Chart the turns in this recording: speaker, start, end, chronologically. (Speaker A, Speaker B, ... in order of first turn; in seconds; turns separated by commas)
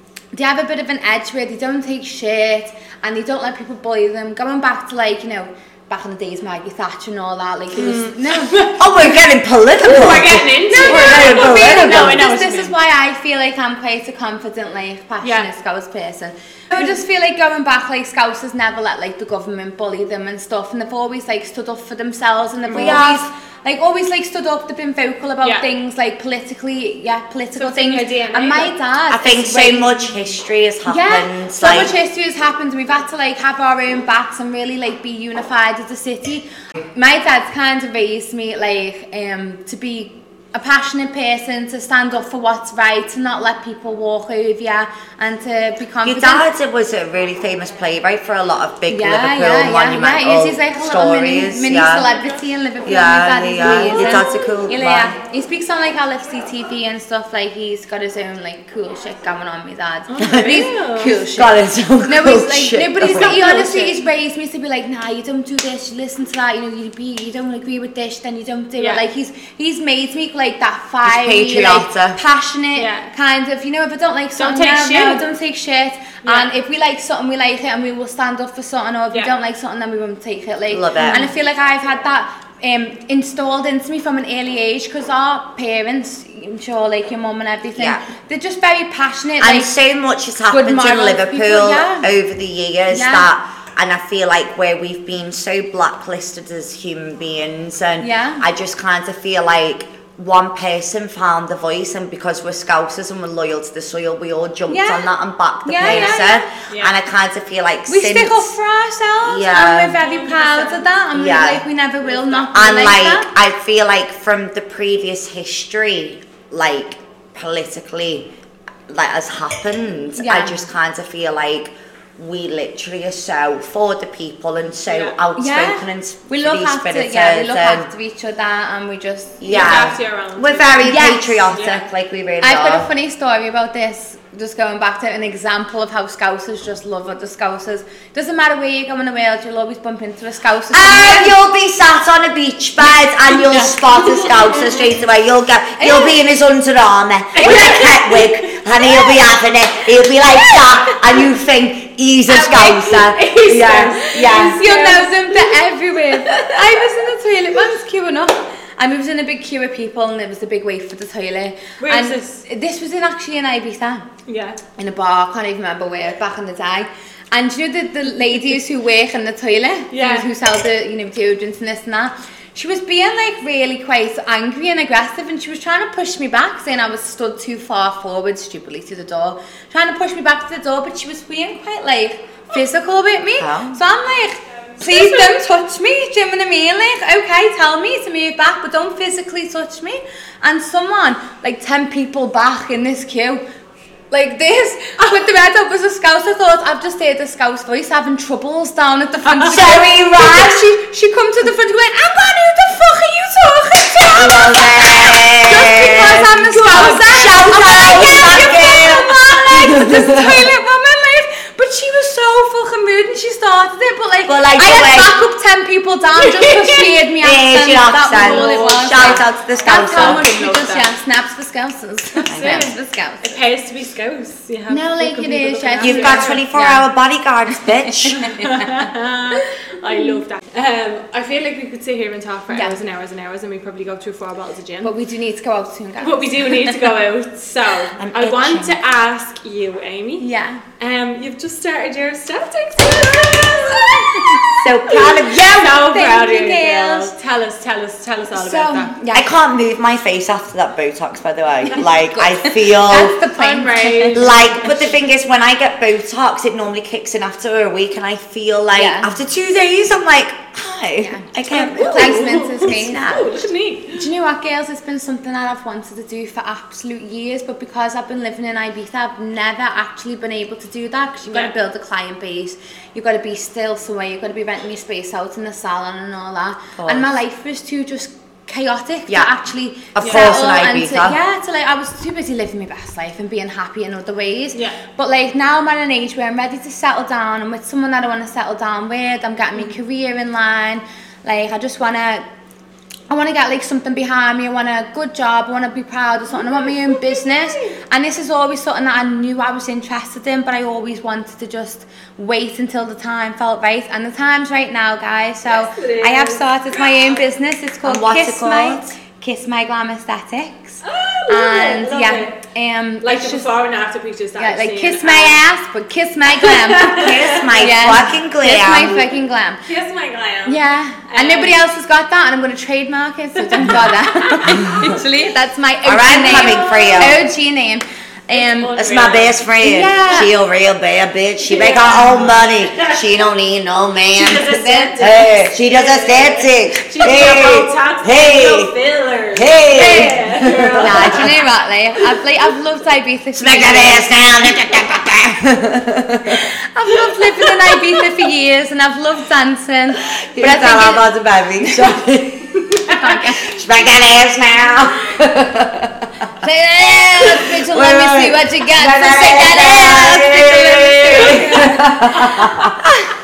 Speaker A: 0.3-9.1, Speaker B: 7.8-9.1, Speaker C: 8.8-12.2, Speaker B: 9.8-12.7, Speaker A: 10.7-30.0, Speaker B: 15.2-15.5, Speaker B: 22.7-23.2, Speaker C: 22.8-23.1, Speaker B: 25.4-25.7, Speaker B: 27.6-28.7, Speaker C: 29.1-31.9, Speaker A: 30.9-46.5, Speaker C: 46.0-52.1, Speaker A: 48.9-89.7, Speaker C: 52.8-55.1, Speaker B: 53.8-54.5, Speaker B: 60.1-61.2, Speaker C: 60.4-63.9, Speaker B: 63.2-63.9, Speaker B: 68.8-69.0, Speaker C: 71.0-72.2, Speaker B: 72.8-73.1, Speaker B: 74.4-75.2, Speaker B: 76.2-76.5, Speaker C: 80.7-81.2, Speaker C: 87.8-88.0, Speaker C: 89.4-108.5, Speaker A: 90.5-92.1, Speaker A: 92.9-93.3, Speaker A: 98.0-98.4, Speaker A: 104.7-105.1, Speaker A: 105.6-106.4, Speaker B: 105.8-107.0, Speaker A: 107.9-113.3, Speaker C: 109.2-110.0, Speaker B: 110.0-110.9, Speaker C: 111.1-111.6, Speaker B: 112.0-112.7, Speaker C: 112.5-118.3, Speaker C: 118.9-127.9, Speaker A: 120.2-120.6, Speaker B: 124.9-125.2, Speaker A: 125.4-129.8, Speaker C: 129.4-132.9, Speaker B: 129.5-131.8, Speaker A: 130.8-131.5, Speaker A: 132.4-141.4, Speaker C: 140.7-154.6, Speaker A: 143.3-143.7, Speaker B: 144.0-144.9, Speaker A: 145.8-146.2, Speaker B: 147.4-148.4, Speaker A: 147.4-147.9, Speaker B: 152.3-155.6, Speaker A: 154.2-164.1, Speaker B: 156.3-156.8, Speaker B: 161.8-162.4, Speaker B: 164.3-164.6, Speaker A: 164.8-193.4, Speaker B: 169.9-170.3, Speaker C: 183.4-183.8, Speaker B: 184.9-185.4, Speaker A: 194.1-223.4, Speaker C: 199.4-200.6, Speaker C: 204.1-210.5, Speaker B: 206.3-209.1, Speaker C: 214.3-215.1, Speaker B: 216.2-216.9, Speaker C: 217.2-220.2, Speaker B: 218.1-220.9, Speaker B: 222.3-226.4, Speaker C: 222.3-222.7, Speaker A: 224.7-226.9, Speaker C: 225.8-228.3, Speaker B: 228.3-234.9, Speaker A: 234.8-236.8, Speaker B: 236.0-240.3, Speaker C: 238.0-238.8, Speaker A: 240.2-240.6, Speaker B: 240.8-248.9, Speaker A: 244.1-244.4, Speaker C: 244.6-245.9, Speaker A: 245.8-247.1, Speaker A: 248.3-249.3, Speaker C: 249.1-253.2, Speaker A: 252.1-254.6, Speaker B: 253.3-254.8, Speaker C: 254.1-262.2, Speaker A: 258.7-259.1, Speaker A: 261.0-263.3, Speaker B: 261.5-264.1, Speaker A: 263.9-292.2, Speaker C: 276.8-277.1, Speaker C: 279.9-281.2, Speaker B: 280.0-280.3, Speaker B: 284.5-284.8, Speaker A: 293.1-313.5, Speaker B: 296.4-297.8, Speaker B: 305.5-307.2, Speaker C: 307.8-308.9, Speaker B: 310.8-312.4, Speaker B: 313.0-315.4, Speaker A: 314.4-319.6, Speaker B: 316.3-317.5, Speaker C: 316.9-319.0, Speaker B: 319.6-321.6, Speaker A: 320.5-328.8, Speaker B: 323.5-324.5, Speaker C: 325.8-327.2, Speaker B: 326.2-327.2, Speaker B: 328.3-329.4, Speaker C: 328.8-334.5, Speaker A: 329.6-330.3, Speaker B: 331.5-333.1, Speaker B: 334.1-341.3, Speaker A: 334.4-335.0, Speaker C: 335.0-338.7, Speaker C: 339.3-341.3, Speaker A: 339.7-344.1, Speaker C: 343.4-346.5, Speaker A: 346.3-351.0, Speaker C: 350.3-356.3, Speaker A: 351.6-351.9, Speaker A: 352.9-353.5, Speaker A: 356.4-361.8, Speaker C: 357.2-362.8, Speaker B: 361.0-362.5, Speaker A: 362.4-362.9